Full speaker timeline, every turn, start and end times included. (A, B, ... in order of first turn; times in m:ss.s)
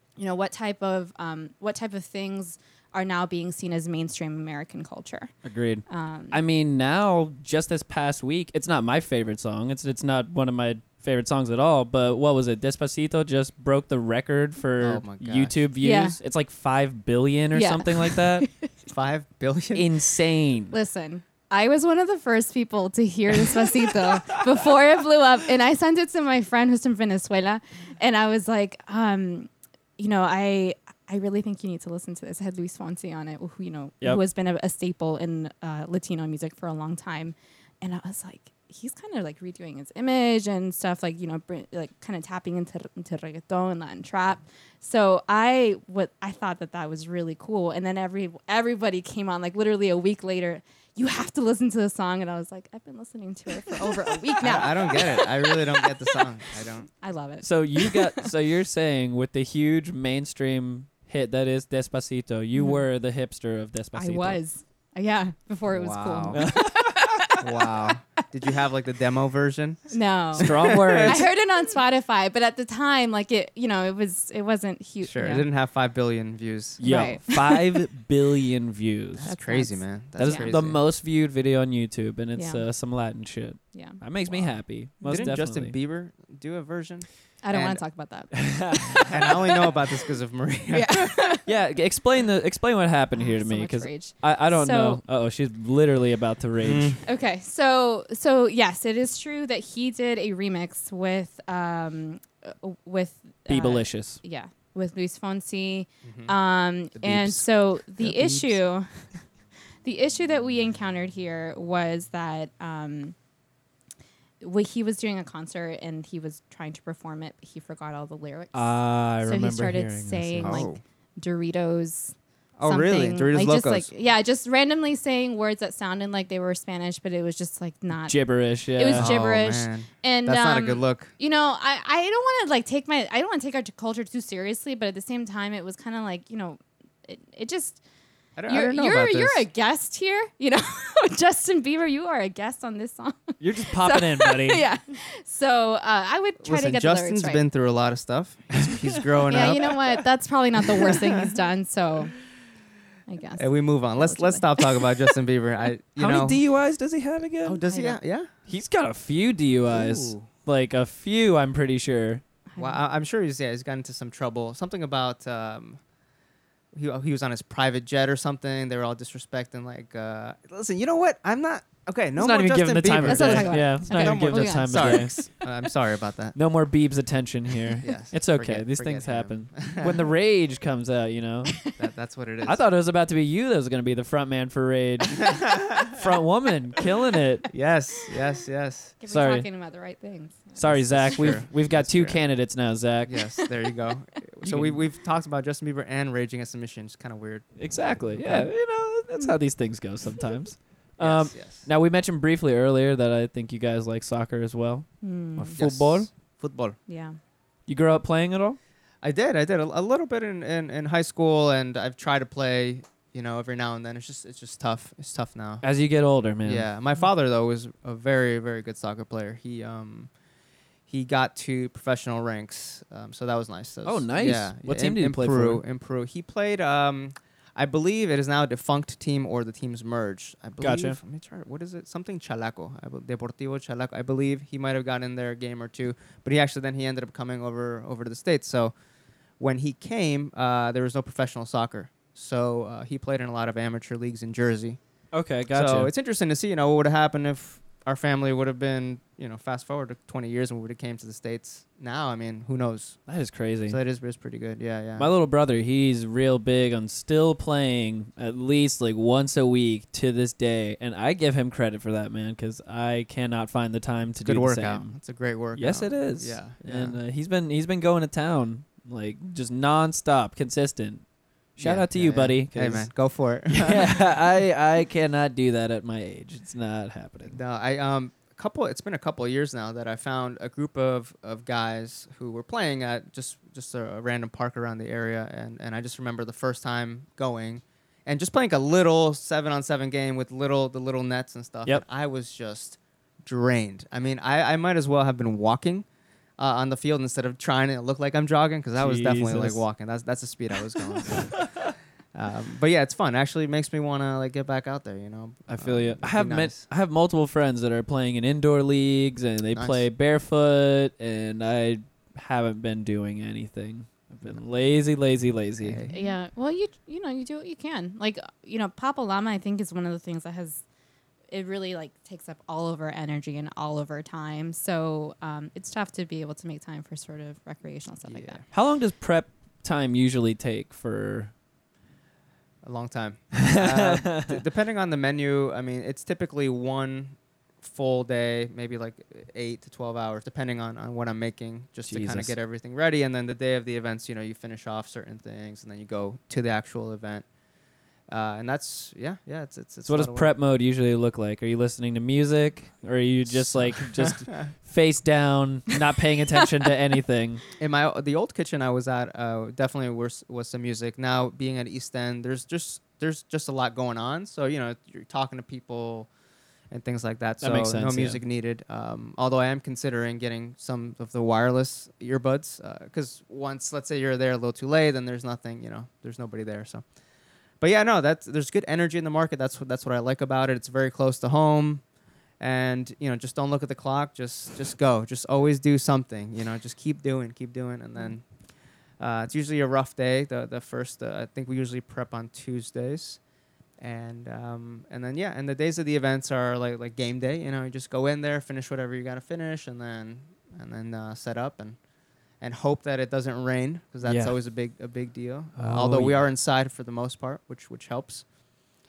0:00.2-0:05.3 A
0:05.4-0:18.5 B
0:05.9-0:06.4 A
0:14.8-0:15.6 C
0:15.8-0:16.2 A
0:17.5-0:18.7 A
0:18.9-0:19.9 C
0:19.7-0:20.8 B
0:20.7-0:56.2 A
0:54.4-0:56.9 C
0:57.0-0:58.3 A
0:57.4-1:04.4 B
1:02.6-1:02.8 A
1:04.0-1:07.5 A
1:05.7-1:06.4 C
1:06.3-1:07.2 B
1:07.4-1:11.2 C
1:09.9-1:15.5 A
1:10.4-1:11.3 B
1:15.0-1:16.8 C
1:16.8-1:19.3 B
1:16.8-1:17.8 A
1:19.2-1:20.8 C
1:19.2-1:20.5 A
1:20.2-1:25.7 B
1:22.4-1:22.6 A
1:23.7-1:24.0 A
1:24.3-1:27.8 C
1:27.4-1:29.4 A
1:28.3-1:29.1 B
1:29.1-1:31.2 C
1:30.7-1:31.5 A
1:31.4-1:37.0 B
1:33.2-1:35.0 A
1:36.6-1:37.0 C
1:37.0-1:48.9 A
1:43.5-1:44.2 B
1:46.0-1:46.4 C
1:47.0-1:47.4 C
1:48.0-1:48.6 C
1:49.8-1:53.2 A
1:54.4-2:17.8 A
1:58.5-2:00.6 B
2:00.4-2:00.8 C
2:02.6-2:03.9 C
2:08.1-2:09.1 B
2:08.9-2:11.1 C
2:18.4-2:19.5 C
2:18.5-2:27.4 A
2:23.4-2:24.6 B
2:26.4-2:30.0 C
2:28.6-2:29.6 B
2:29.3-2:32.1 A
2:30.8-2:31.2 C
2:33.1-2:34.8 A
2:33.4-2:36.4 C
2:36.0-2:37.6 B
2:37.4-2:38.3 C
2:37.7-2:38.0 A
2:38.5-2:42.2 B
2:39.7-2:40.3 C
2:42.5-2:42.8 A
2:42.6-2:45.8 C
2:46.7-2:56.4 C
2:52.2-2:55.2 B
2:53.0-2:55.3 A
2:56.4-3:01.6 B
2:57.8-3:00.0 C
3:01.8-3:02.6 C
3:02.4-3:07.5 B
3:05.2-3:06.0 C
3:07.5-3:09.0 C
3:09.0-3:11.2 A
3:09.1-3:09.5 B
3:10.6-3:13.2 B
3:10.7-3:12.2 C
3:13.0-3:18.5 C
3:14.4-3:14.8 B
3:17.6-3:26.1 B
3:21.0-3:21.7 C
3:25.0-3:25.6 A
3:25.6-3:26.8 C
3:26.9-3:27.2 A
3:27.7-3:28.6 B
3:29.0-3:35.6 C
3:35.6-3:36.7 B
3:36.4-3:40.1 C
3:40.9-3:58.7 C
3:43.8-3:45.6 B
3:50.6-3:51.0 B
3:59.4-4:04.8 C
4:05.1-4:05.9 B
4:05.5-4:13.0 C
4:13.1-4:13.8 B
4:13.7-4:15.1 C
4:15.0-4:25.0 B
4:24.2-4:27.0 C
4:25.6-4:31.0 B
4:31.6-4:32.9 B
4:31.6-4:34.1 C
4:33.5-4:37.4 B
4:37.3-4:55.9 C
4:56.4-5:06.6 C
4:58.8-4:59.6 B
5:05.5-5:15.8 B
5:09.5-5:09.8 C
5:15.6-5:16.1 C
5:15.9-5:20.6 A
5:21.3-5:28.4 A
5:28.0-5:28.4 C
5:28.5-5:31.3 B
5:32.6-5:47.3 C
5:33.4-5:34.4 B
5:41.9-5:42.4 B
5:48.1-5:50.3 C
5:49.9-5:57.4 B
5:53.3-5:54.5 C
5:57.6-6:06.1 C
6:06.7-6:16.8 C
6:07.4-6:08.2 B
6:17.6-6:21.8 C
6:22.4-6:28.2 C
6:29.0-6:33.2 C
6:33.8-6:41.8 C
6:42.4-6:48.2 C
6:44.0-6:44.4 B
6:45.6-6:46.2 B